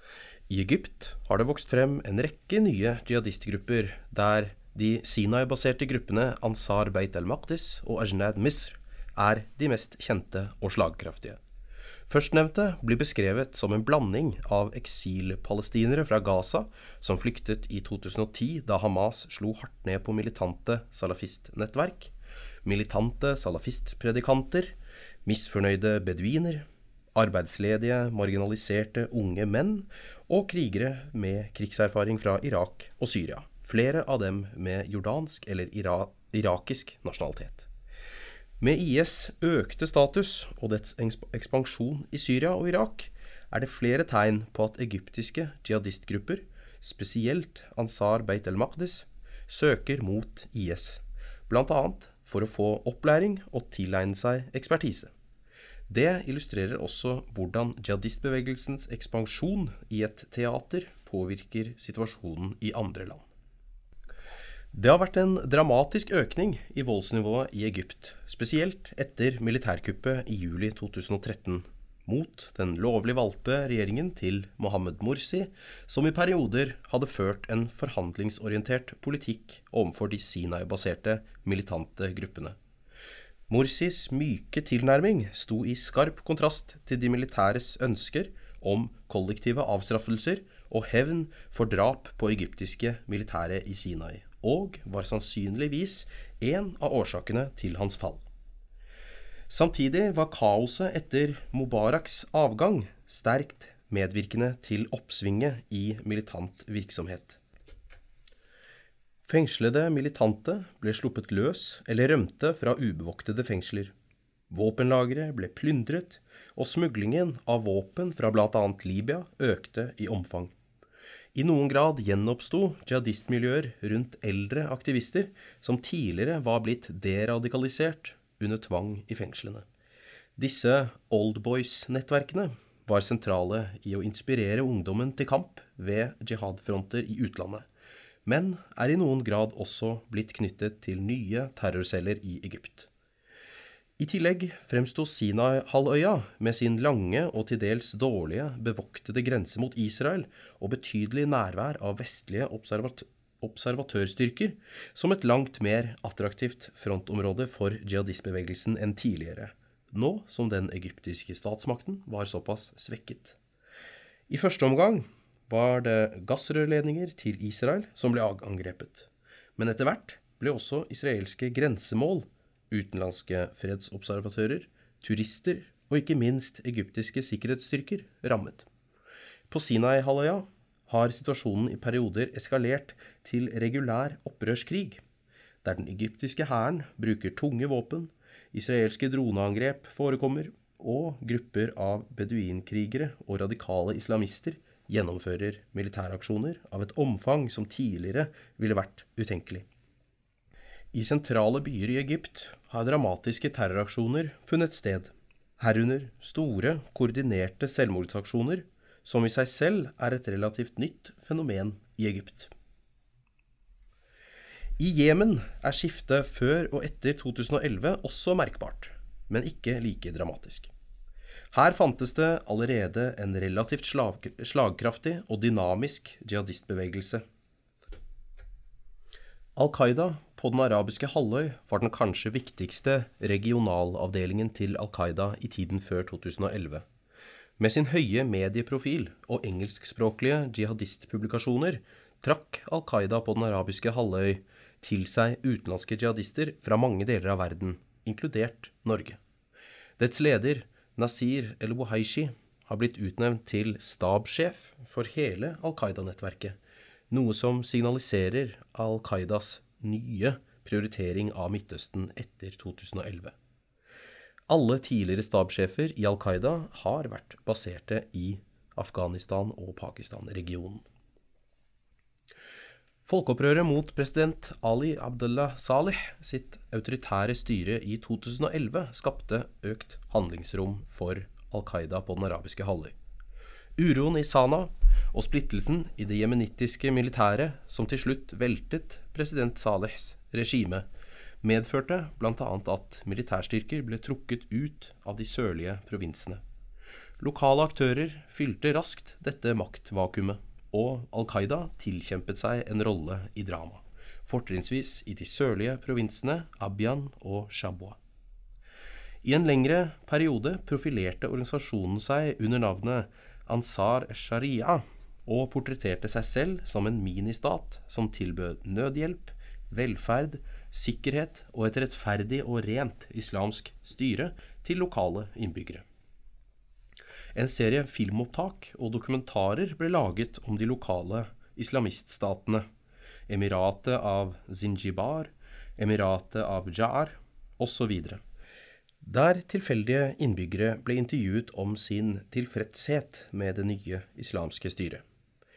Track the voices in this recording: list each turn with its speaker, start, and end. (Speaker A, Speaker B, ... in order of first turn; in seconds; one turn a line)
Speaker A: 0.5-11.4
Speaker A: 12.1-22.1
Speaker A: 22.6-37.7
Speaker A: 38.6-55.1
Speaker A: 55.9-63.3
Speaker A: 64.7-82.6
Speaker A: 83.5-98.2
Speaker A: 99.5-107.4
Speaker A: 109.2-113.9
Speaker A: 114.5-120.5
Speaker A: 121.3-129.7
Speaker A: 130.4-137.7
Speaker A: 138.3-142.9
Speaker A: 144.0-163.4
Speaker A: 164.3-178.7
Speaker A: 179.5-185.0
Speaker A: 185.6-199.7
Speaker A: 200.9-212.5
Speaker A: 214.8-220.7
Speaker A: 221.5-227.2
Speaker A: 229.6-236.8
Speaker A: 237.6-249.2
Speaker A: 250.0-256.6
Speaker A: 257.1-263.3
Speaker A: 264.5-270.8
Speaker A: 273.1-282.9
Speaker A: 283.8-290.9
Speaker A: 291.4-296.4
Speaker A: 297.2-308.0
Speaker A: 309.2-325.9
Speaker A: 327.4-332.7
Speaker A: 333.3-338.2
Speaker A: 339.0-345.0